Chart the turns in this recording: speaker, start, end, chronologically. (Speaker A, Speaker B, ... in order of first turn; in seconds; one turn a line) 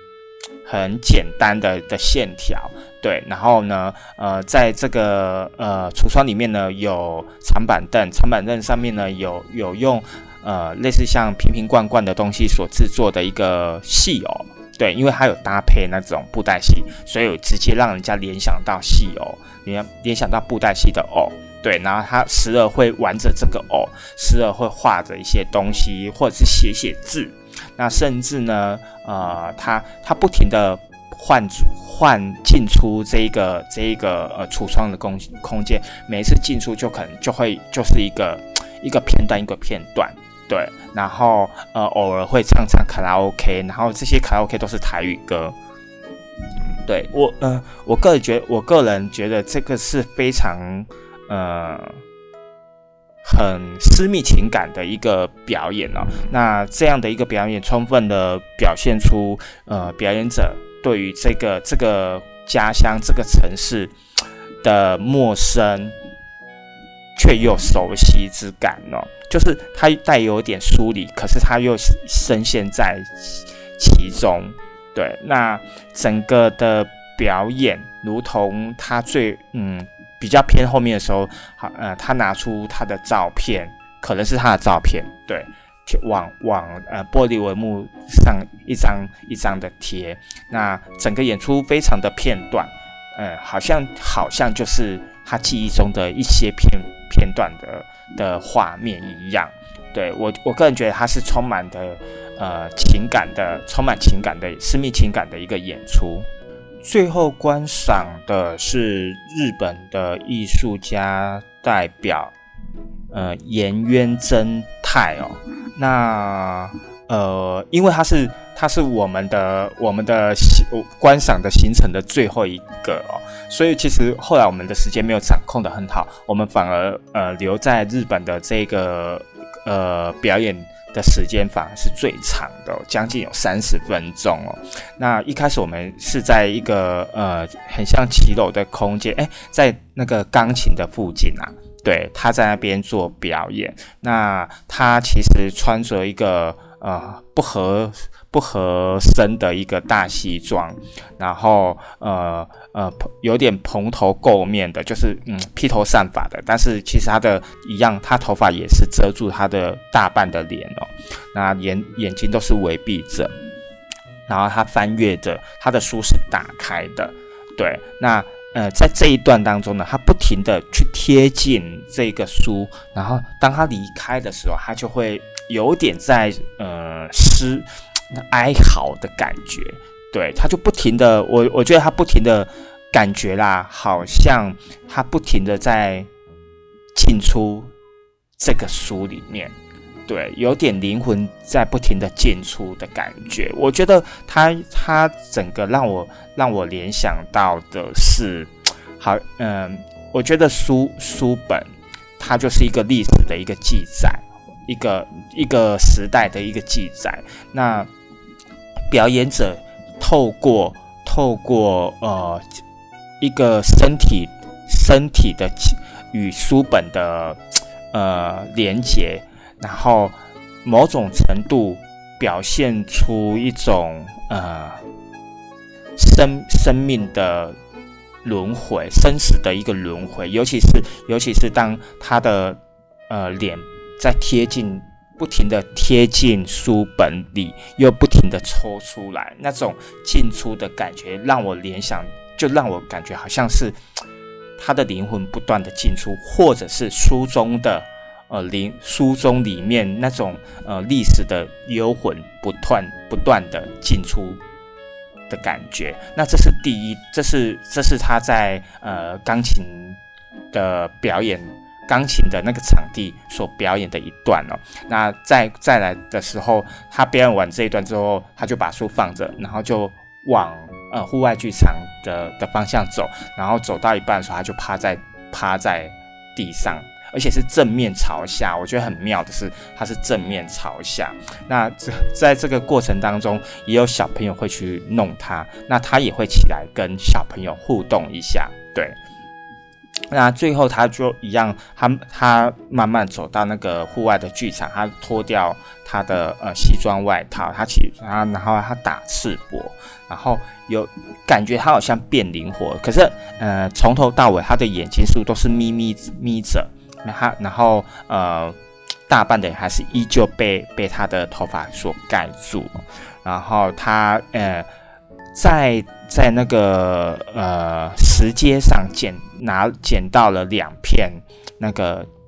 Speaker A: 0.6-45.5
Speaker A: 46.8-52.0
Speaker A: 53.2-63.9
Speaker A: 64.6-65.9
Speaker A: 67.2-106.2
Speaker A: 106.8-112.3
Speaker A: 113.1-163.3
Speaker A: 164.3-186.1
Speaker A: 186.9-187.7
Speaker A: 188.4-189.5
Speaker A: 190.1-207.9
Speaker A: 208.9-212.5
Speaker A: 213.2-217.4
Speaker A: 217.9-224.8
Speaker A: 225.9-227.6
Speaker A: 228.2-243.8
Speaker A: 244.6-254.4
Speaker A: 255.3-260.0
Speaker A: 260.5-289.0
Speaker A: 290.1-308.6
Speaker A: 309.1-314.7
Speaker A: 315.3-322.1